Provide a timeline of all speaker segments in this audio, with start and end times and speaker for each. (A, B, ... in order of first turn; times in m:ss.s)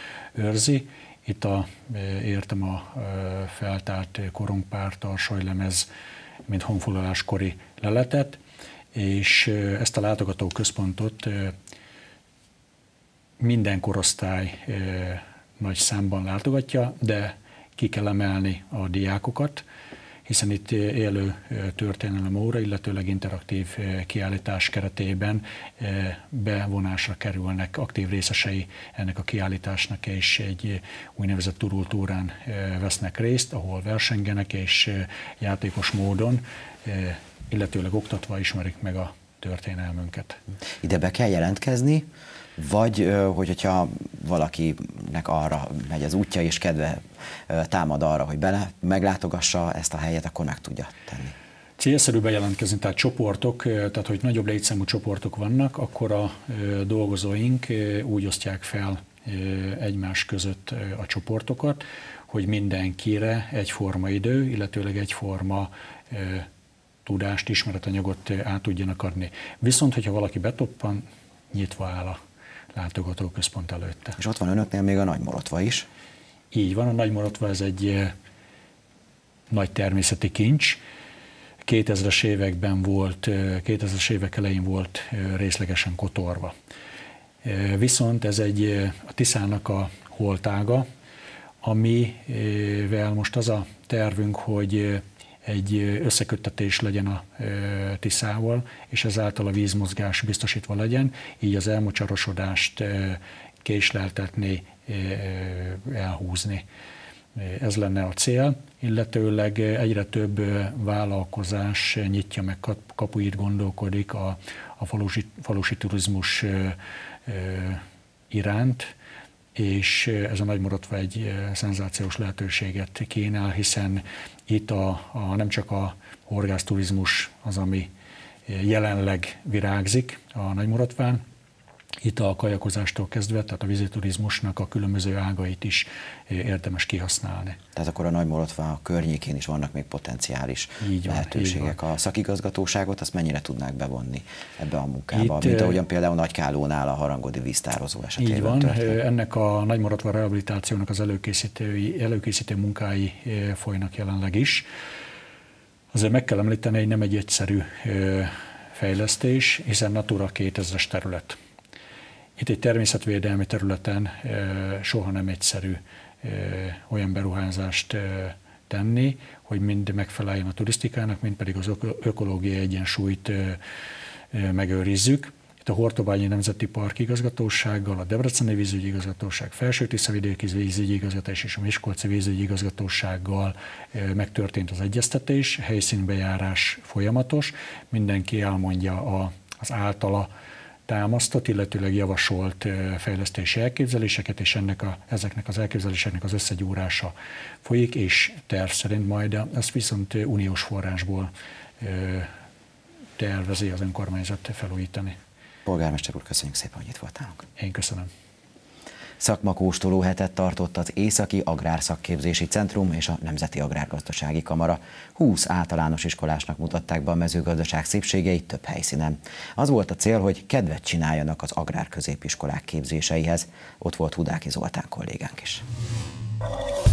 0:00.4-0:05.9 A
0:06.5-0:08.4 A
0:08.9-0:11.6 A
0:13.4-0:19.6 A
0:20.3-0:40.4 A
0:40.8-0:51.4 B
0:51.8-1:06.5 A
1:07.0-1:12.2 A
1:12.7-1:14.2 A
1:14.2-1:15.9 B
1:16.5-1:18.1 A
1:19.5-1:20.8 A
1:21.6-1:26.5 A
1:27.4-1:30.9 A
1:31.6-1:46.6 A
1:47.4-1:58.9 A
1:59.6-2:07.9 A
2:08.5-2:11.2 A
2:12.0-2:17.6 A
2:17.8-2:29.0 B
2:20.8-2:21.8 A
2:25.1-2:25.8 A
2:28.2-2:34.7 A
2:35.9-2:41.4 A
2:42.4-2:53.6 A
2:54.3-3:10.3 A
3:10.9-3:22.3 A
3:23.2-3:25.2 A
3:25.7-3:27.4 B
3:27.6-3:28.1 A
3:29.2-3:45.6 B